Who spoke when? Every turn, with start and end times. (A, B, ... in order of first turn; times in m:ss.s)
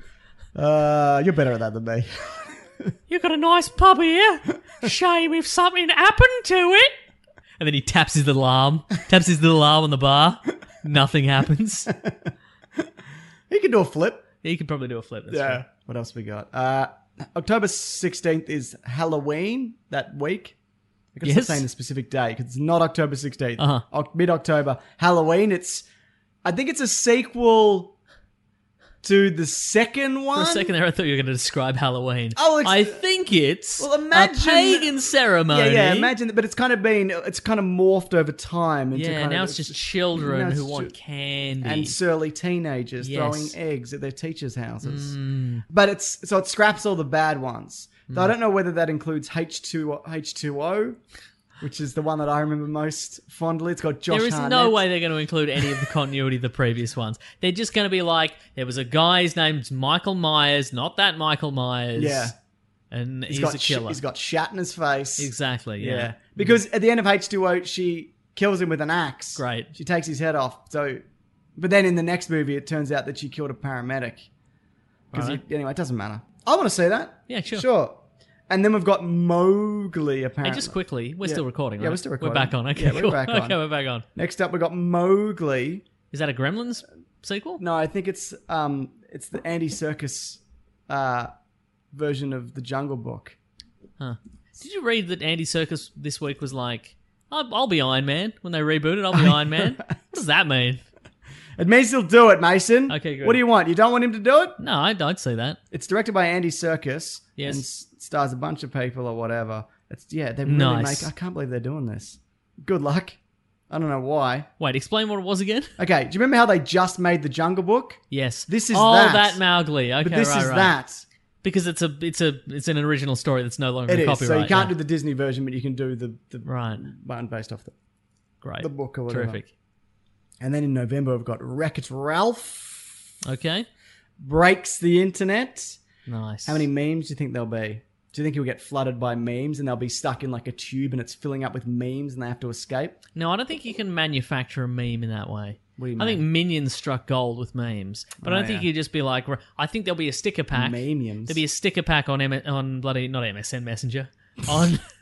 0:00.5-0:02.9 A
0:03.1-0:06.9 B
0:07.6-0:11.9 B
0:13.5-0:14.3 A
0:14.4-0:15.6 B
0:15.3-0:20.5 A
0:21.1-0:25.8 A
0:21.2-0:21.6 B
0:23.6-0:23.8 B
0:26.4-0:27.9 A
0:29.0-0:30.7 A
0:30.3-0:36.1 B
0:32.4-0:33.0 A
0:33.8-0:34.9 A
0:35.5-0:40.9 A
0:38.9-0:42.0 B
0:41.6-0:45.1 A
0:43.0-0:43.5 B
0:44.8-0:45.6 B
0:45.7-0:51.0 A
0:51.6-0:54.8 A
0:54.1-1:02.3 B
1:02.0-1:02.3 A
1:02.9-1:04.0 B
1:03.3-1:11.0 A
1:05.2-1:06.5 B
1:09.4-1:09.7 B
1:11.6-1:14.3 A
1:15.1-1:15.4 B
1:15.1-1:23.6 A
1:17.3-1:17.6 B
1:20.4-1:24.0 B
1:24.1-1:25.8 A
1:26.1-1:27.6 B
1:27.6-1:31.3 A
1:31.9-1:33.4 A
1:34.0-1:40.8 B
1:39.1-1:40.2 A
1:41.6-1:44.6 A
1:42.9-1:43.4 B
1:44.6-1:45.6 B
1:45.7-1:53.2 A
1:47.4-1:47.6 B
1:50.4-1:51.1 B
1:53.7-1:54.5 A
1:54.6-1:55.7 B
1:55.8-1:59.4 A
1:58.1-2:00.7 B
2:00.0-2:01.0 A
2:01.4-2:04.7 B
2:03.9-2:07.7 A
2:06.4-2:06.8 B
2:08.4-2:09.5 B
2:08.6-2:09.4 A
2:10.4-2:13.0 A
2:13.2-2:13.7 B
2:14.2-2:15.8 A
2:16.0-2:16.6 B
2:16.4-2:23.0 A
2:23.2-2:34.8 B
2:25.8-2:26.2 A
2:28.2-2:28.7 A
2:30.5-2:31.4 A